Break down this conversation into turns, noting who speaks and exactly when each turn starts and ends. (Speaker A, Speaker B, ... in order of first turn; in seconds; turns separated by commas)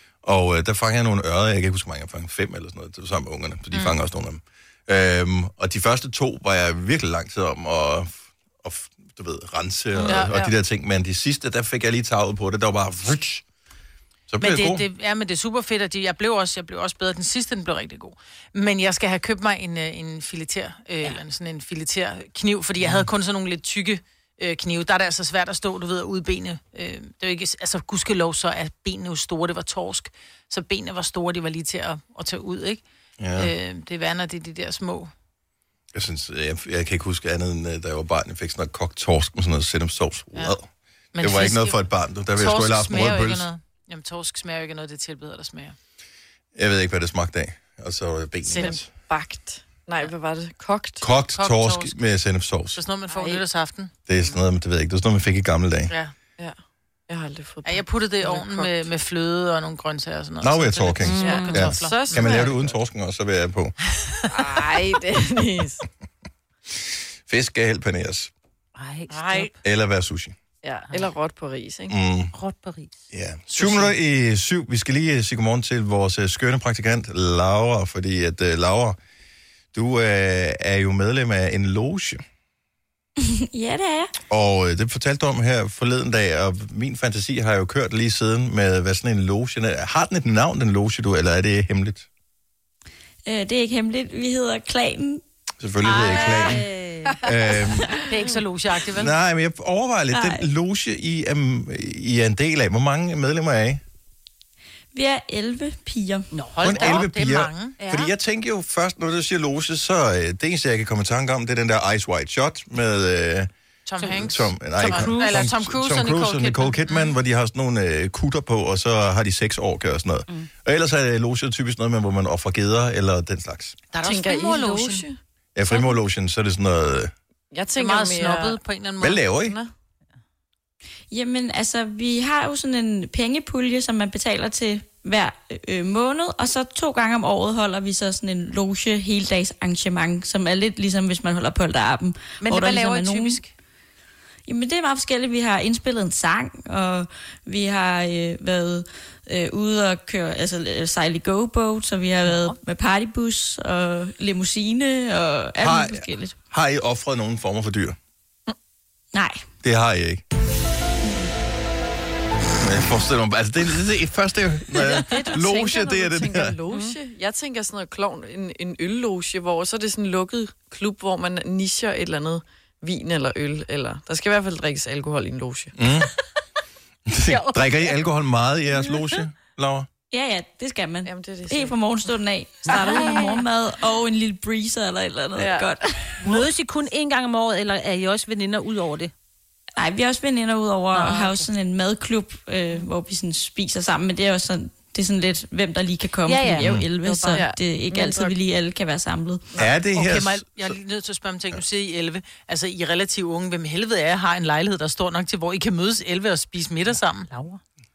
Speaker A: 0.2-13.4, Speaker B: 10.0-10.5, Speaker A: 14.3-14.8, Speaker B: 14.4-32.8, Speaker A: 33.2-33.5, Speaker B: 33.4-35.1, Speaker A: 35.9-43.5, Speaker B: 41.1-41.8, Speaker B: 42.3-45.8, Speaker A: 46.5-48.9, Speaker B: 48.4-48.8, Speaker C: 48.6-51.1, Speaker A: 51.0-52.8, Speaker B: 51.4-51.9, Speaker B: 52.8-53.9, Speaker C: 53.1-53.4, Speaker A: 54.1-55.9, Speaker C: 57.1-58.8, Speaker B: 57.6-62.5, Speaker A: 60.4-63.7, Speaker D: 61.1-61.6, Speaker C: 61.2-62.8, Speaker C: 64.3-65.8, Speaker A: 66.7-68.3, Speaker D: 68.8-69.5, Speaker B: 69.1-69.4, Speaker A: 69.6-70.3, Speaker C: 70.6-72.0, Speaker A: 71.9-72.3, Speaker D: 72.3-73.0, Speaker A: 73.1-79.0, Speaker B: 73.5-73.9, Speaker A: 79.7-82.2, Speaker E: 83.2-84.1, Speaker A: 84.3-92.1, Speaker E: 93.2-95.2, Speaker A: 95.6-96.7, Speaker D: 95.8-97.2, Speaker A: 97.2-98.0, Speaker B: 98.1-99.1, Speaker A: 98.9-103.8, Speaker E: 100.1-100.5, Speaker E: 104.9-106.3, Speaker D: 106.3-107.0, Speaker B: 106.5-107.8, Speaker A: 106.6-113.5, Speaker D: 107.8-108.1, Speaker B: 113.8-117.0, Speaker A: 114.2-123.7, Speaker D: 114.8-115.5, Speaker B: 123.9-125.0, Speaker C: 124.0-125.2, Speaker A: 125.5-127.1, Speaker C: 127.5-128.6, Speaker B: 127.8-129.2, Speaker A: 129.0-129.6, Speaker C: 129.4-129.7, Speaker E: 131.1-143.4, Speaker B: 142.4-143.5, Speaker E: 144.5-156.3, Speaker A: 155.6-158.0, Speaker E: 159.1-159.4, Speaker A: 159.6-160.2, Speaker A: 162.6-166.5, Speaker C: 164.9-175.7, Speaker D: 166.7-166.9, Speaker A: 175.8-176.1, Speaker A: 177.1-179.9, Speaker D: 177.3-177.9, Speaker E: 180.1-186.3, Speaker C: 181.0-181.8, Speaker D: 182.7-183.4, Speaker C: 185.3-185.7, Speaker D: 186.2-189.1, Speaker E: 189.8-199.5, Speaker D: 190.9-191.5, Speaker D: 196.2-197.4, Speaker C: 196.7-198.3, Speaker A: 199.6-200.8, Speaker B: 199.9-207.3, Speaker D: 207.3-207.6